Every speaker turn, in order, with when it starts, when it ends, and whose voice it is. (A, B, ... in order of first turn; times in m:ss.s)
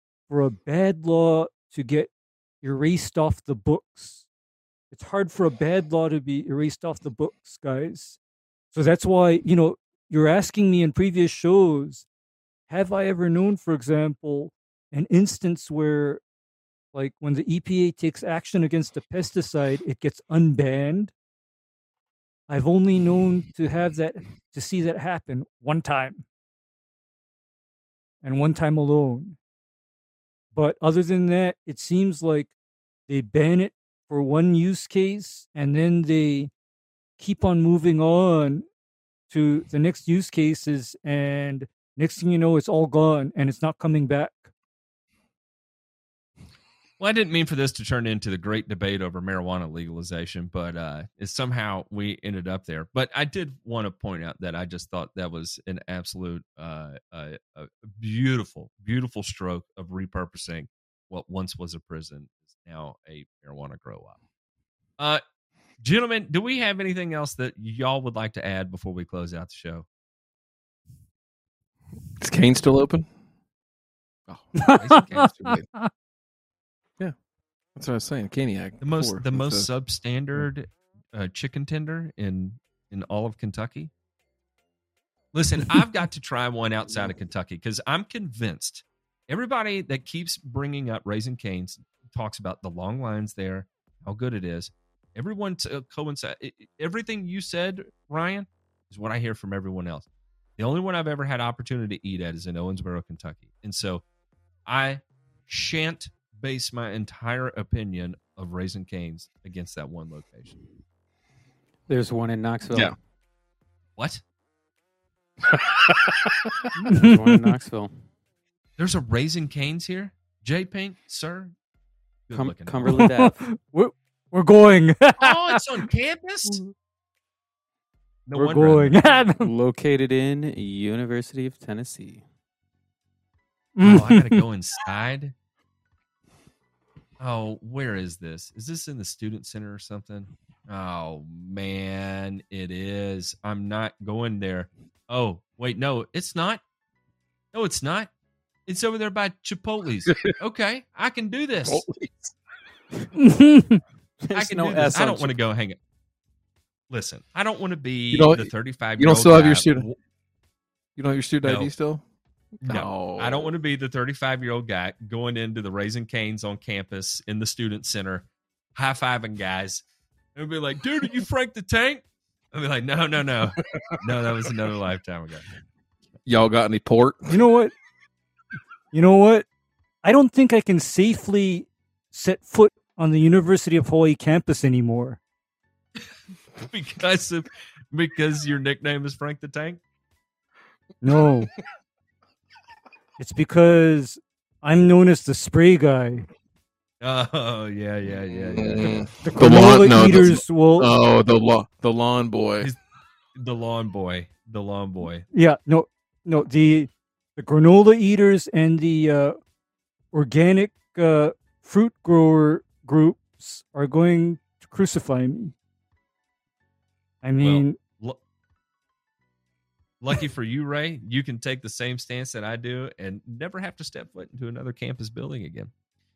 0:00.3-0:02.1 A
0:02.6-0:04.3 A
0:04.9-0:08.2 A
0:08.7-0:12.1 A
0:12.7-0:16.2 A
0:16.9-0:21.1 A
0:22.5-0:26.3 A
0:28.2-0:29.4 A
0:30.5-0:32.5 A
0:33.1-0:36.5 A
0:37.2-0:38.7 A
0:39.3-0:44.5 A
0:47.0-1:04.2 B
1:05.8-1:09.9 B
1:12.2-1:13.1 C
1:14.3-1:15.5 C
1:14.6-1:15.7 B
1:14.6-1:15.9 A
1:17.8-1:19.7 C
1:18.8-1:23.9 B
1:25.3-1:44.0 B
1:44.7-1:50.6 B
1:51.9-1:53.0 D
1:54.0-1:54.2 B
1:55.6-1:56.5 C
1:56.8-1:58.0 D
1:56.9-1:57.5 A
1:58.8-2:01.6 B
2:02.3-2:03.1 B
2:02.3-2:03.4 D
2:02.9-2:05.6 A
2:05.2-2:06.6 B
2:08.3-2:09.3 B
2:08.3-2:09.5 A
2:09.4-2:12.2 D
2:13.8-2:14.4 A
2:13.8-2:15.3 B
2:17.2-2:26.6 B
2:27.5-2:28.1 B
2:28.7-2:31.8 B
2:31.6-2:32.3 C
2:33.2-2:33.8 A
2:34.2-2:35.4 D
2:34.3-2:35.8 B
2:36.9-2:40.0 B
2:38.1-2:39.9 C
2:41.0-2:42.0 C
2:41.4-2:41.7 B
2:42.6-2:43.5 C
2:42.6-2:55.5 B
2:56.3-2:57.4 C
2:57.3-2:57.7 A
2:58.9-2:59.5 A
3:00.0-3:05.2 A
3:06.6-3:09.8 B
3:11.0-3:11.5 A
3:13.2-3:16.3 A
3:17.0-3:19.1 B
3:18.3-3:22.7 C
3:18.8-3:20.9 A
3:23.4-3:25.3 B
3:25.3-3:29.4 A
3:30.1-3:35.6 A
3:37.2-3:37.8 A
3:37.4-3:38.2 B
3:40.0-3:45.7 B